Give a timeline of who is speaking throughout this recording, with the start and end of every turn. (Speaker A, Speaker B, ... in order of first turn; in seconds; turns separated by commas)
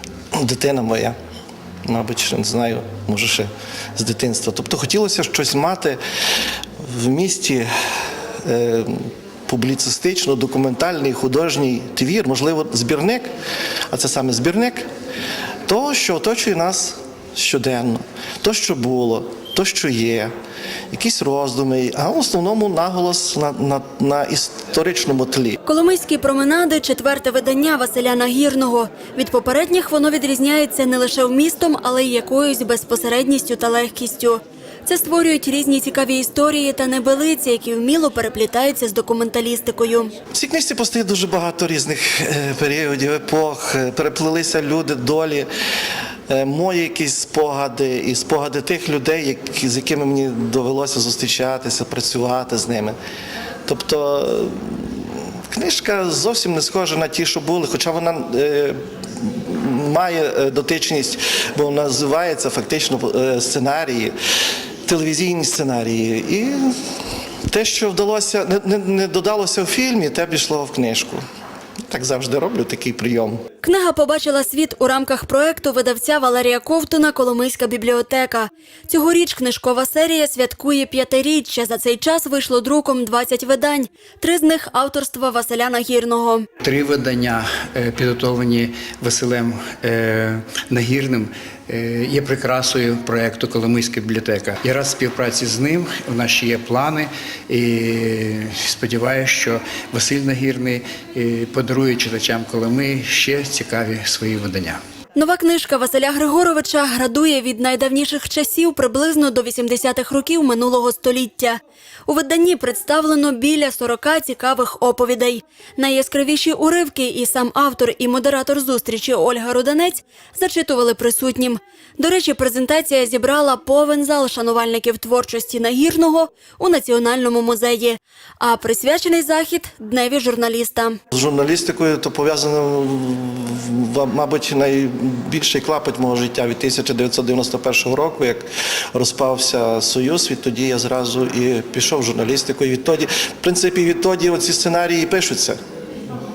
Speaker A: 0.3-1.2, Speaker A: 1.9-6.0, Speaker A: 6.8-7.7, Speaker A: 8.4-13.3, Speaker A: 13.9-14.9, Speaker A: 15.7-20.3, Speaker A: 20.9-25.6, Speaker B: 25.7-40.1, Speaker A: 40.3-45.5, Speaker A: 46.3-53.0, Speaker A: 53.7-64.1, Speaker A: 64.9-66.8, Speaker A: 67.5-71.2, Speaker A: 71.9-73.4, Speaker B: 73.6-86.5, Speaker C: 86.6-104.8, Speaker B: 105.2-131.0, Speaker A: 131.1-145.6